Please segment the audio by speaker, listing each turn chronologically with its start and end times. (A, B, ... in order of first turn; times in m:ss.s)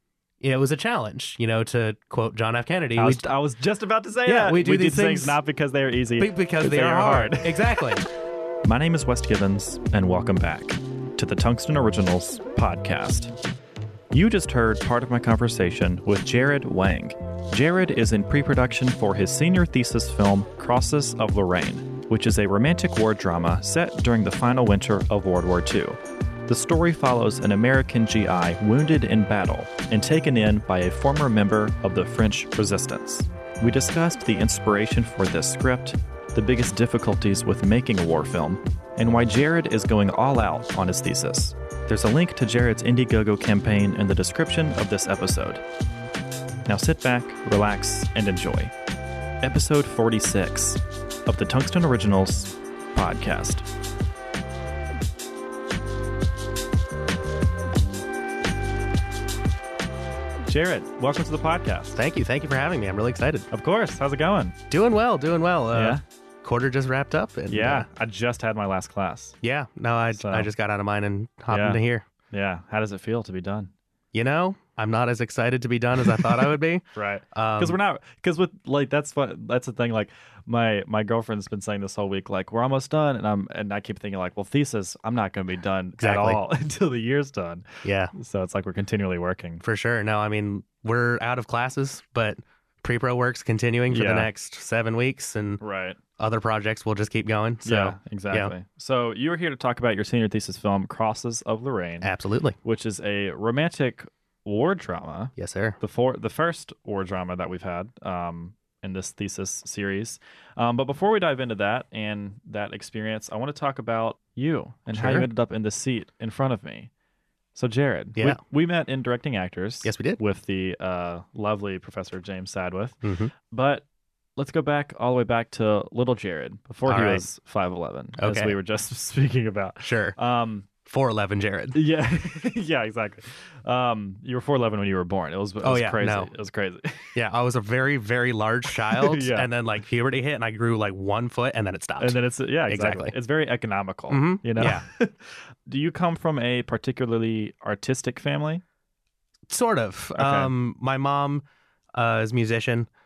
0:00.4-0:03.2 A
0:03.0-0:08.0 B
0:04.2-0:05.4 A
0:06.2-0:08.0 A
0:08.6-0:13.3 B
0:14.1-0:45.6 B
0:46.7-0:48.7 B
0:49.4-0:53.6 B
1:00.5-1:02.0 B
1:01.9-1:03.5 A
1:03.5-1:04.6 B
1:04.7-1:07.9 A
1:05.7-1:06.0 B
1:07.5-1:09.4 B
1:09.4-1:12.0 A
1:10.1-1:10.5 B
1:11.5-1:11.8 B
1:12.3-1:13.7 B
1:14.1-1:17.8 A
1:16.2-1:29.6 B
1:26.0-1:26.4 A
1:27.8-1:28.1 A
1:29.6-1:35.6 A
1:33.9-1:34.3 B
1:35.6-1:36.0 B
1:36.2-1:38.5 A
1:37.6-1:42.1 B
1:42.0-1:42.6 A
1:42.6-1:56.9 B
1:45.4-1:45.8 A
1:54.9-1:55.3 A
1:57.5-2:03.0 B
1:59.8-2:00.2 A
2:03.0-2:03.3 A
2:03.5-2:03.8 B
2:04.4-2:10.7 B
2:06.8-2:07.2 A
2:08.2-2:08.5 A
2:09.8-2:10.2 A
2:10.8-2:11.8 A
2:11.7-2:17.1 B
2:15.6-2:16.3 A
2:17.1-2:23.1 A
2:18.8-2:19.5 B
2:22.0-2:28.6 B
2:24.1-2:24.9 A
2:29.5-2:32.9 A
2:30.2-2:30.5 B